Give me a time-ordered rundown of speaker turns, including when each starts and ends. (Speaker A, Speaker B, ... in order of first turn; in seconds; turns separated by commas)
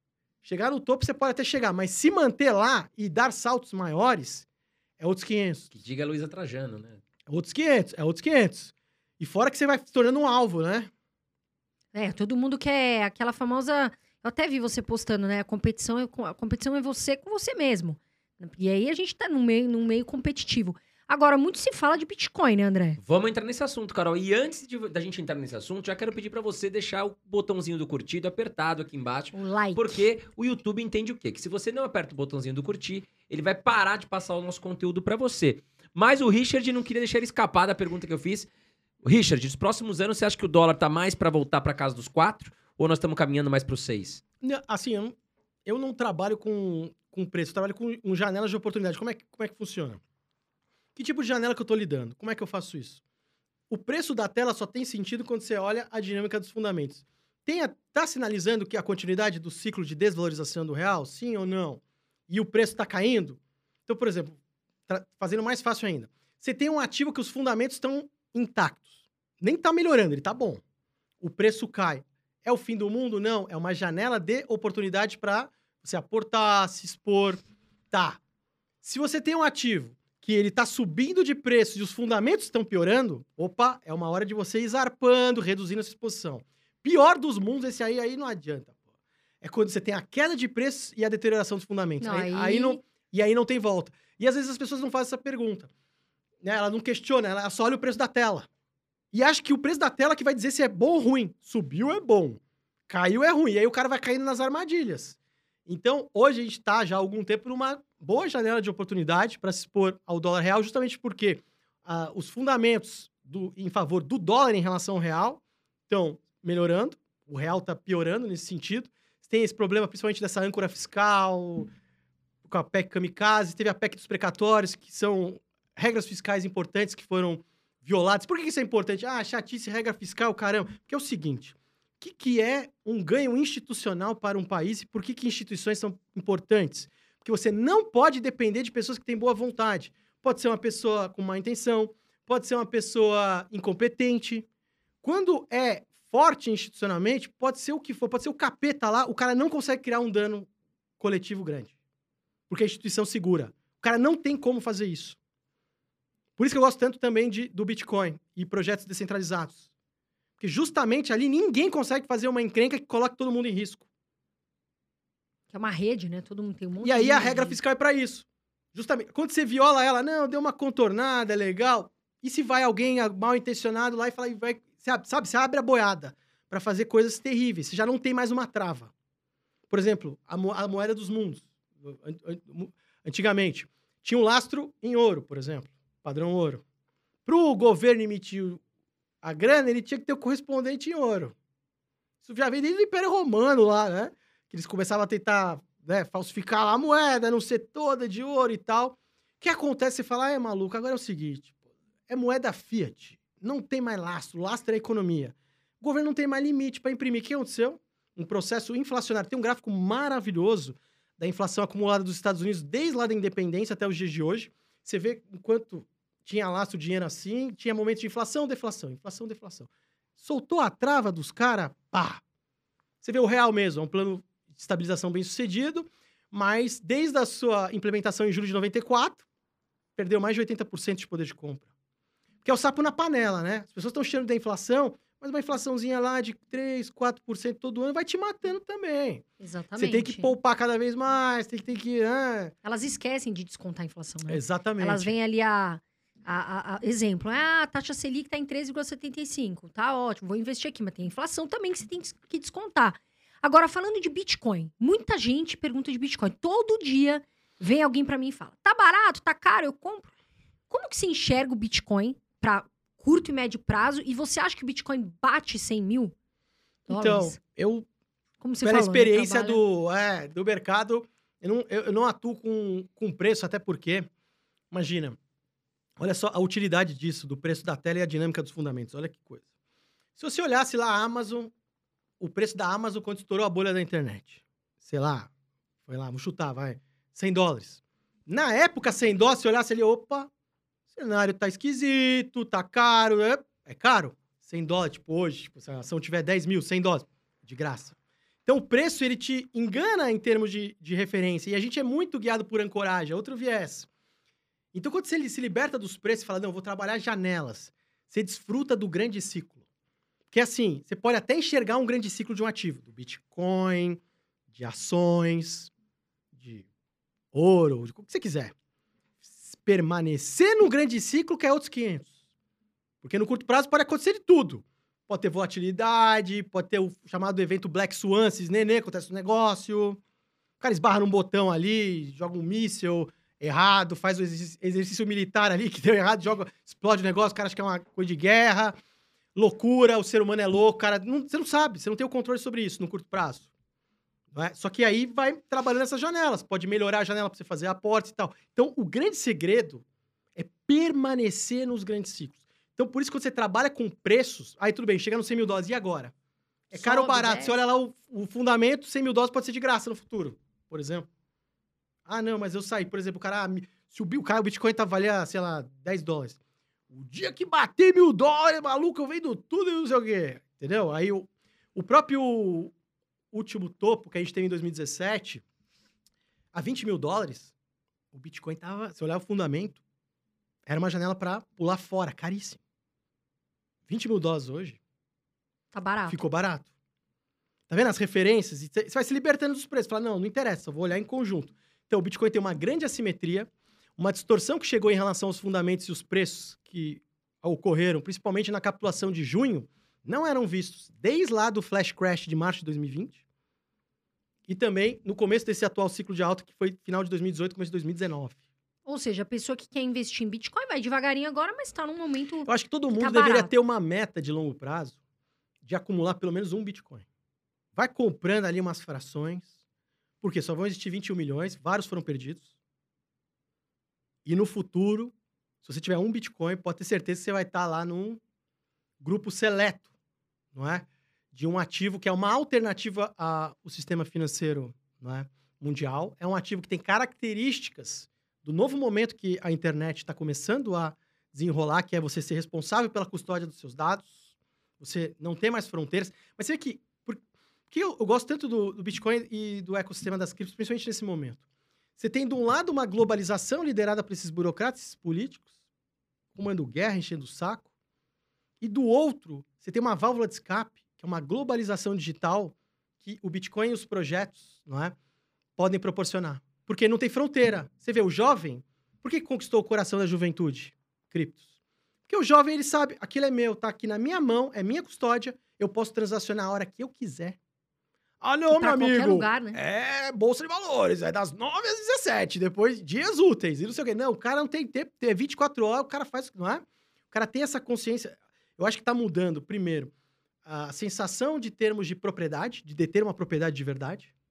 Speaker A: 0.4-4.5, Speaker A: 5.0-5.7, Speaker B: 5.7-7.0, Speaker A: 7.3-10.9, Speaker C: 11.9-23.0, Speaker B: 23.0-38.5, Speaker C: 29.3-30.0, Speaker B: 39.0-44.2, Speaker A: 44.4-45.1, Speaker A: 45.6-50.0, Speaker A: 51.0-53.0, Speaker A: 53.7-64.4, Speaker A: 64.9-70.6, Speaker A: 71.2-78.2, Speaker A: 78.8-88.8, Speaker A: 89.4-95.7, Speaker C: 92.0-92.8, Speaker A: 96.4-98.5, Speaker A: 99.1-121.7, Speaker A: 122.4-144.5, Speaker A: 145.0-150.5, Speaker A: 151.0-151.7, Speaker A: 152.5-155.2, Speaker A: 156.4-159.7, Speaker A: 160.4-163.8, Speaker C: 165.5-167.6, Speaker A: 166.8-178.9, Speaker A: 179.7-186.6, Speaker A: 187.2-188.6, Speaker A: 189.2-191.3, Speaker A: 192.2-201.5, Speaker A: 202.1-222.2, Speaker A: 223.0-229.2, Speaker A: 230.0-231.7, Speaker A: 232.4-239.2, Speaker C: 239.4-240.3, Speaker A: 239.8-242.5, Speaker C: 242.6-260.1, Speaker A: 244.3-245.1, Speaker C: 260.7-266.1, Speaker C: 266.9-267.4, Speaker A: 266.9-267.9, Speaker C: 268.4-269.6, Speaker A: 268.6-274.1, Speaker A: 274.7-275.2, Speaker A: 276.0-279.4, Speaker A: 280.1-281.5, Speaker A: 282.2-285.3, Speaker A: 285.9-290.3, Speaker A: 290.9-303.9, Speaker A: 304.7-309.6, Speaker A: 310.3-314.0, Speaker A: 314.5-315.7, Speaker A: 316.3-316.6, Speaker A: 317.3-318.5, Speaker A: 319.2-322.1, Speaker A: 323.0-330.0, Speaker A: 330.6-338.8, Speaker A: 339.3-343.5, Speaker A: 344.3-349.8, Speaker A: 350.3-356.1, Speaker A: 356.7-361.1, Speaker C: 356.7-357.6, Speaker A: 362.1-366.4, Speaker A: 366.9-372.7, Speaker A: 373.3-375.4, Speaker A: 376.5-377.5, Speaker A: 378.1-379.8, Speaker A: 380.6-382.6, Speaker A: 383.9-384.8, Speaker C: 385.7-386.2, Speaker A: 386.1-386.7, Speaker A: 387.7-403.2, Speaker A: 404.5-408.4, Speaker C: 408.9-413.5, Speaker A: 412.4-415.0, Speaker A: 415.6-417.1, Speaker A: 417.8-419.5, Speaker A: 420.2-422.5, Speaker A: 424.2-425.1, Speaker A: 425.6-428.2, Speaker A: 429.0-429.9, Speaker A: 430.5-444.1, Speaker A: 444.8-451.4, Speaker A: 452.0-455.5, Speaker A: 456.3-457.7, Speaker A: 458.6-464.9, Speaker A: 465.6-471.4, Speaker A: 472.1-477.4, Speaker A: 478.2-489.9, Speaker C: 478.5-479.6, Speaker A: 490.4-494.1